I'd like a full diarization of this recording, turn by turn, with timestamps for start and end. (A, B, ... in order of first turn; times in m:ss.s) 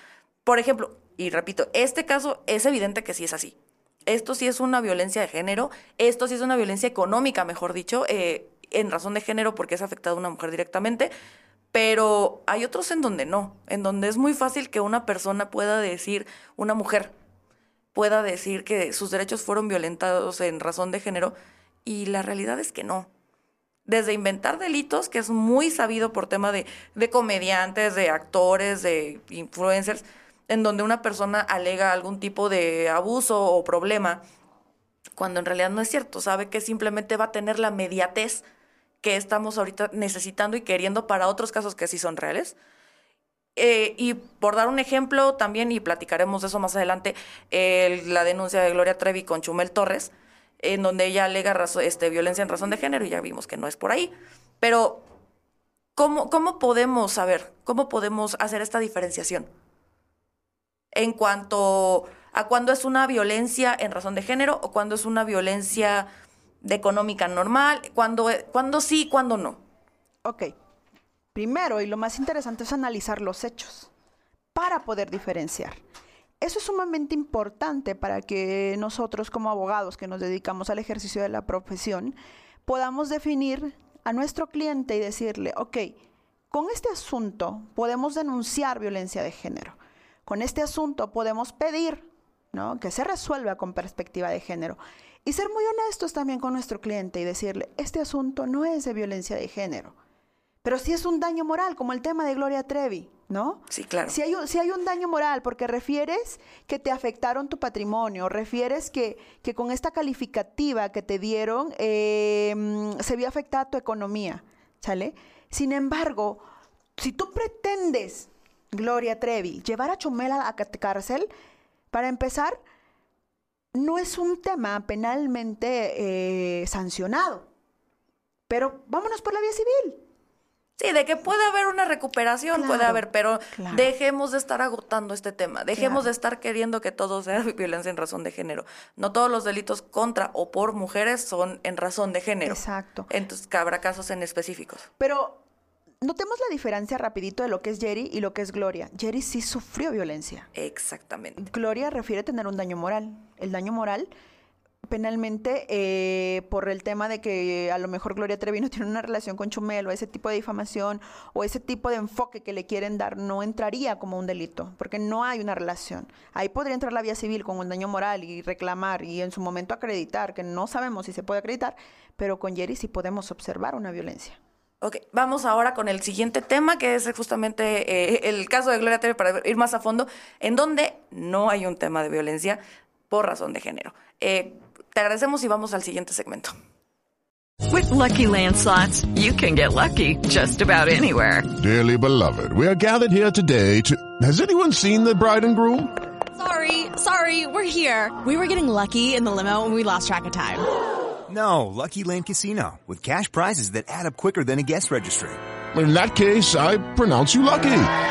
0:00.5-0:11.1 A
0:11.7-0:17.1 A
0:17.9-0:23.1 A
0:23.9-0:34.2 A
0:35.2-0:38.5 A
0:39.0-0:42.6 A
0:43.6-0:55.1 A
0:56.0-0:59.5 A
1:00.9-1:06.1 A
1:06.6-1:09.6 A
1:10.2-1:10.6 B
1:11.4-1:13.9 B
1:14.6-1:15.8 B
1:16.4-1:26.0 B
1:26.5-1:40.0 B
1:40.6-1:56.5 B
1:43.7-1:44.1 A
1:57.0-2:01.3 B
2:01.9-2:02.6 B
2:03.7-2:07.5 B
2:08.5-2:10.0 B
2:10.8-2:24.9 A
2:12.5-2:13.9 B
2:15.8-2:16.0 B
2:22.4-2:23.1 B
2:25.0-2:25.4 B
2:26.0-2:30.5 B
2:30.6-2:31.4 A
2:31.4-2:34.1 B
2:34.9-2:54.4 B
2:54.8-3:06.5 A
3:07.7-3:11.5 C
3:11.6-3:15.9 D
3:16.3-3:20.6 E
3:21.3-3:25.4 F
3:25.7-3:27.9 D